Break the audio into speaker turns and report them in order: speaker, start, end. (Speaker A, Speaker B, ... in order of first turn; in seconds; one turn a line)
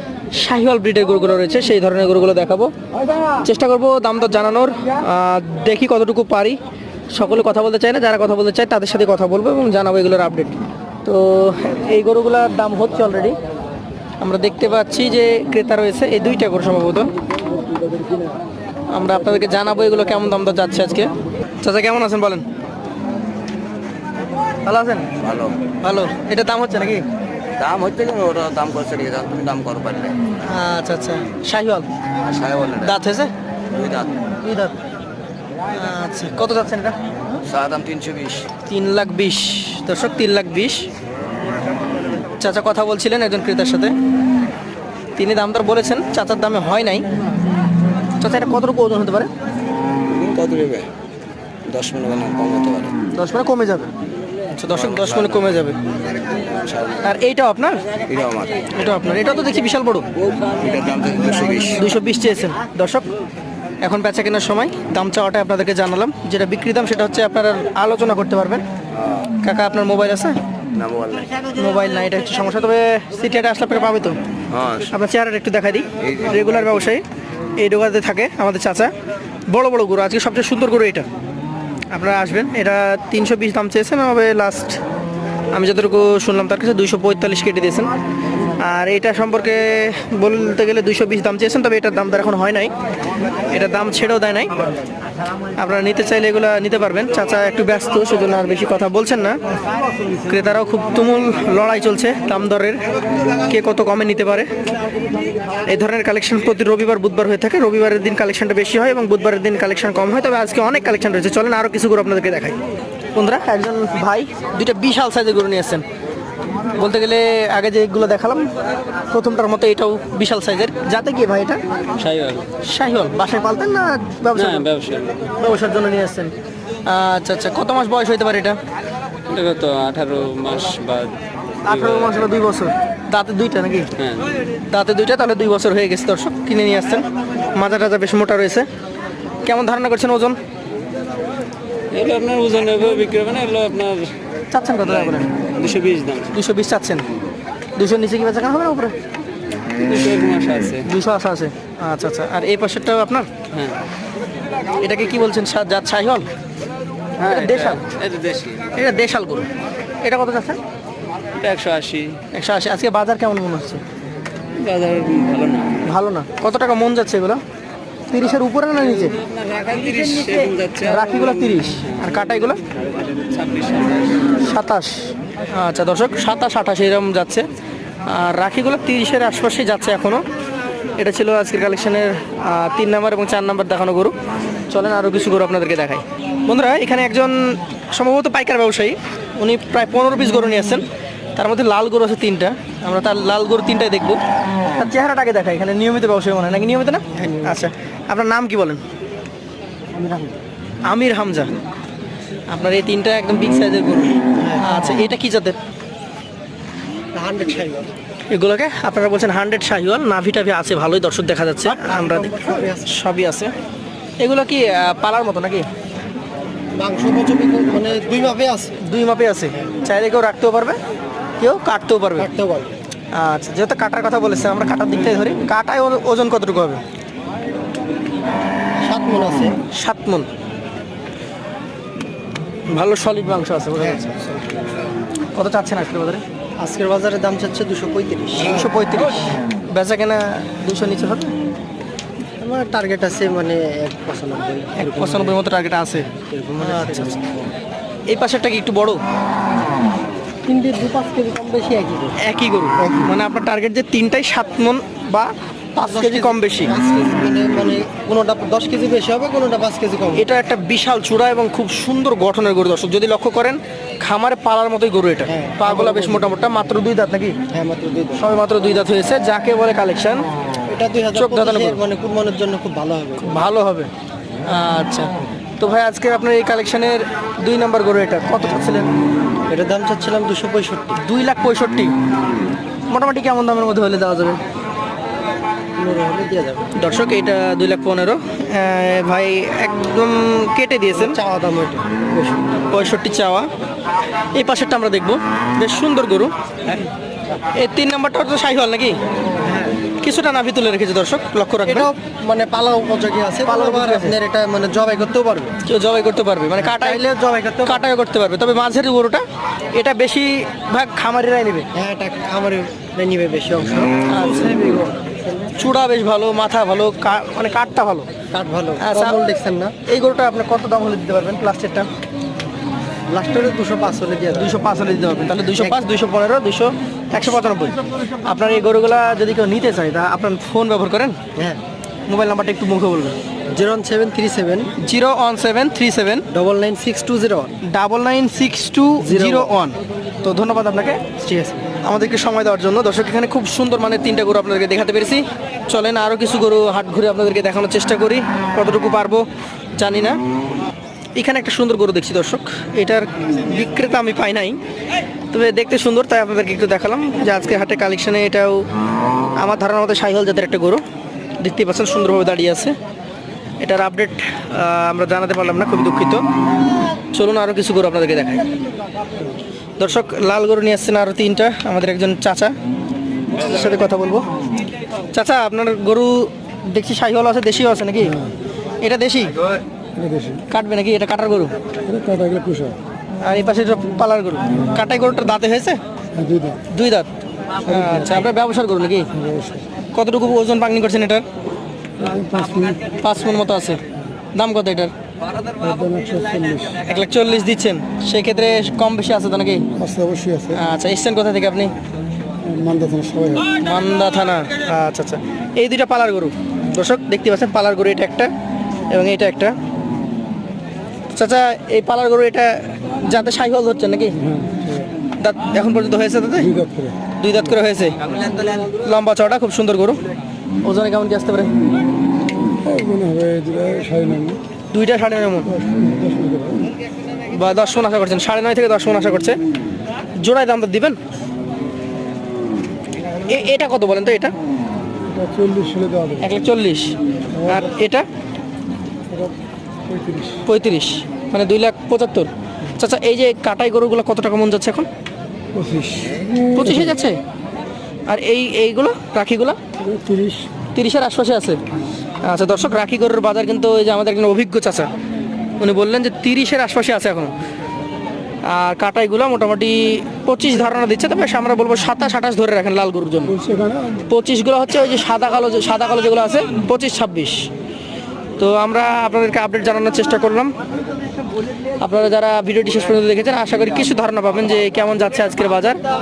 Speaker A: 0.3-2.7
Speaker A: 3.4-6.6
Speaker A: 7.1-13.4
Speaker A: 14.2-17.1
Speaker A: 18.9-22.4
Speaker A: 24.6-25.1
Speaker B: 25.2-25.6
Speaker A: 25.8-27.1
Speaker B: 27.6-30.2
Speaker A: 30.5-31.9
Speaker B: 32.3-32.9
Speaker A: 32.8-33.3
Speaker B: 33.7-34.2
Speaker A: 34.4-34.8
Speaker A: 35.7-37.0
Speaker B: 37.4-38.5
Speaker A: 38.7-40.9
Speaker A: 42.4-44.0
Speaker A: 45.2-47.0
Speaker A: 48.2-49.3
Speaker B: 50.1-50.9
Speaker B: 51.7-53.0
Speaker A: 53.1-53.9
Speaker A: 54.5-55.8
Speaker B: 54.8-55.4
Speaker B: 56.5-57.0
Speaker A: 57.0-57.8
Speaker B: 58.0-58.7
Speaker A: 58.7-60.1
Speaker B: 60.6-61.8
Speaker A: 61.8-63.1
Speaker A: 63.8-68.6
Speaker A: 69.4-70.4
Speaker B: 70.7-71.3
Speaker A: 71.5-74.2
Speaker B: 74.5-74.9
Speaker A: 74.9-77.0
Speaker A: 77.6-78.9
Speaker A: 79.5-81.1
Speaker A: 81.9-84.8
Speaker A: 85.5-87.9
Speaker A: 88.6-92.7
Speaker A: 93.5-94.6
Speaker A: 95.6-99.4
Speaker A: 100.3-102.8
Speaker A: 103.5-104.5
Speaker A: 105.7-112.6
Speaker A: 113.2-115.8
Speaker A: 116.8-118.5
Speaker A: 119.1-121.6
Speaker C: 122.0-122.5
Speaker A: 122.6-124.7
Speaker C: 124.3-125.3
Speaker A: 125.4-126.3
Speaker A: 126.9-128.6
Speaker C: 129.3-131.1
Speaker A: 131.7-133.9
Speaker C: 131.7-132.2
Speaker C: 134.0-134.3
Speaker A: 134.7-138.7
Speaker A: 139.4-140.4
Speaker C: 141.9-144.1
Speaker A: 144.5-145.3
Speaker C: 145.4-146.3
Speaker A: 146.3-147.1
Speaker A: 147.8-148.9
Speaker C: 149.9-150.8
Speaker A: 150.8-153.3
Speaker C: 153.5-153.8
Speaker A: 154.8-156.3
Speaker C: 157.2-158.8
Speaker A: 157.2-157.8
Speaker A: 158.8-159.5
Speaker A: 160.0-160.6
Speaker C: 161.4-162.2
Speaker A: 162.3-163.8
Speaker C: 164.6-165.8
Speaker A: 165.8-167.4
Speaker A: 168.1-169.2
Speaker C: 169.0-171.9
Speaker A: 169.9-172.6
Speaker C: 173.1-174.3
Speaker A: 174.4-177.4
Speaker A: 178.1-180.2
Speaker A: 181.0-184.1
Speaker A: 184.7-194.2
Speaker A: 194.8-198.8
Speaker D: 197.2-197.6
Speaker D: 199.9-200.4
Speaker A: 200.9-201.5
Speaker A: 202.5-205.6
Speaker D: 204.4-204.6
Speaker D: 207.1-207.9
Speaker A: 208.3-213.5
Speaker D: 211.7-212.9
Speaker A: 214.2-215.7
Speaker D: 216.8-218.8
Speaker A: 218.8-220.8
Speaker A: 221.4-222.3
Speaker D: 222.2-222.8
Speaker A: 223.1-226.8
Speaker D: 228.8-229.6
Speaker A: 229.7-230.3
Speaker A: 232.7-234.3
Speaker A: 235.3-236.2
Speaker D: 236.6-238.7
Speaker A: 238.4-241.3
Speaker D: 242.4-245.4
Speaker A: 244.8-247.2
Speaker D: 246.2-247.2
Speaker A: 248.1-249.0
Speaker D: 250.4-252.2
Speaker A: 252.2-256.8
Speaker D: 252.8-253.1
Speaker D: 255.8-260.3
Speaker A: 260.1-267.4
Speaker D: 265.3-266.3
Speaker D: 267.5-268.2
Speaker A: 268.2-270.2
Speaker D: 270.7-273.4
Speaker A: 271.1-271.8
Speaker A: 273.2-273.9
Speaker A: 274.4-278.9
Speaker D: 279.5-281.0
Speaker A: 281.0-281.9
Speaker A: 282.9-284.4
Speaker D: 285.8-286.7
Speaker A: 286.8-291.2
Speaker D: 290.9-292.6
Speaker A: 292.7-293.5
Speaker A: 294.4-296.9
Speaker A: 297.6-299.0
Speaker D: 299.4-299.8
Speaker A: 300.0-301.9
Speaker D: 301.7-305.5
Speaker A: 303.4-304.2
Speaker A: 305.6-307.1
Speaker D: 306.6-307.9
Speaker A: 307.6-309.2
Speaker A: 309.8-311.7
Speaker D: 311.8-315.5
Speaker A: 314.1-314.7
Speaker A: 315.6-318.1
Speaker D: 318.3-319.8
Speaker A: 318.8-319.2
Speaker A: 319.9-321.9
Speaker D: 323.1-324.6
Speaker A: 324.4-331.2
Speaker D: 325.6-325.8
Speaker D: 331.4-331.6
Speaker A: 332.1-333.2
Speaker D: 333.5-334.7
Speaker A: 334.8-336.3
Speaker D: 336.3-337.6
Speaker A: 337.6-341.0
Speaker D: 339.0-339.6
Speaker D: 341.2-341.6
Speaker A: 341.8-349.2
Speaker A: 349.8-350.2
Speaker A: 351.2-354.6
Speaker A: 355.3-358.6
Speaker A: 359.4-360.8
Speaker A: 361.4-362.8
Speaker A: 363.6-366.2
Speaker A: 367.1-368.4
Speaker A: 369.8-372.5
Speaker A: 373.4-374.3
Speaker A: 375.1-378.2
Speaker A: 378.8-379.4
Speaker E: 380.0-380.4
Speaker A: 380.5-381.5
Speaker E: 381.9-382.8
Speaker A: 383.2-385.8
Speaker E: 386.2-386.6
Speaker A: 386.7-387.1
Speaker A: 387.6-389.1
Speaker E: 387.7-388.0
Speaker E: 389.2-389.6
Speaker A: 389.9-391.2
Speaker E: 392.0-392.8
Speaker A: 393.0-393.8
Speaker A: 394.4-394.9
Speaker E: 395.6-396.8
Speaker A: 396.9-399.7
Speaker E: 399.8-400.6
Speaker A: 400.5-401.7
Speaker E: 402.4-403.5
Speaker A: 403.6-408.3
Speaker A: 408.9-409.6
Speaker A: 411.1-414.1
Speaker E: 414.4-414.8
Speaker A: 415.2-416.6
Speaker E: 416.6-416.9
Speaker A: 417.2-418.0
Speaker A: 418.6-420.0
Speaker A: 420.6-421.5
Speaker E: 422.6-424.4
Speaker A: 424.7-425.5
Speaker E: 425.6-426.7
Speaker A: 427.3-429.4
Speaker A: 430.2-431.0
Speaker A: 433.3-434.3
Speaker E: 435.1-436.3
Speaker A: 436.2-436.9
Speaker E: 437.4-437.6
Speaker A: 437.4-438.1
Speaker E: 439.9-440.4
Speaker A: 440.5-444.9
Speaker E: 445.6-446.8
Speaker A: 446.5-447.2
Speaker A: 448.1-449.6
Speaker E: 449.8-450.5
Speaker A: 450.8-451.6
Speaker A: 452.2-454.9
Speaker A: 455.6-457.3
Speaker A: 458.5-463.4
Speaker E: 463.4-463.9
Speaker A: 464.1-467.5
Speaker A: 468.4-470.5
Speaker A: 471.8-475.8